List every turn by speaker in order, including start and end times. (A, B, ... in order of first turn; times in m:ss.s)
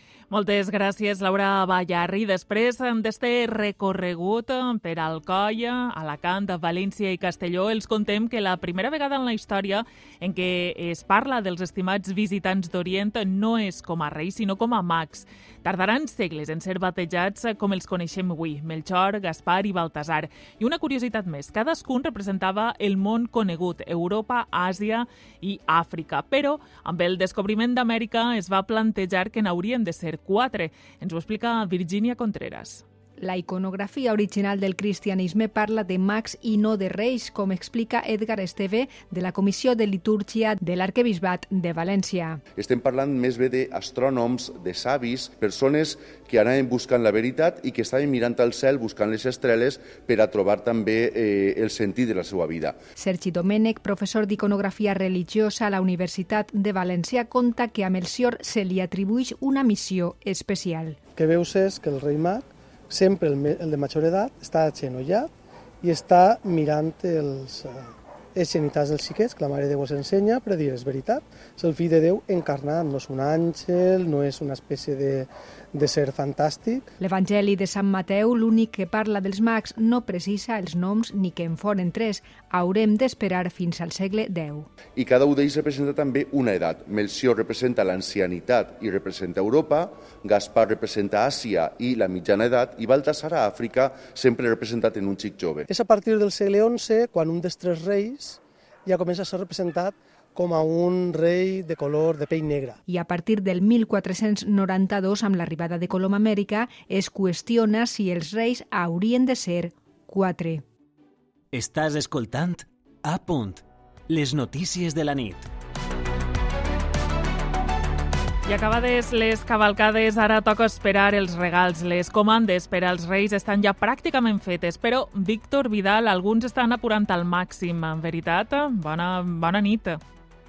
0:00.3-0:32.8 A
0:33.2-0:42.4 B
0:42.6-0:52.8 C
0:53.0-1:01.0 B
1:01.2-1:02.4 D
1:03.2-1:03.4 D
1:04.9-1:05.2 D
1:06.2-1:07.5 D
1:08.5-1:11.2 D
1:11.7-1:15.3 D
1:15.8-1:16.8 D
1:17.0-1:24.7 B
1:25.0-1:35.7 C
1:35.7-1:38.4 D
1:38.9-1:42.8 D
1:42.9-1:50.6 B
1:51.5-1:55.5 E
1:58.5-2:10.0 A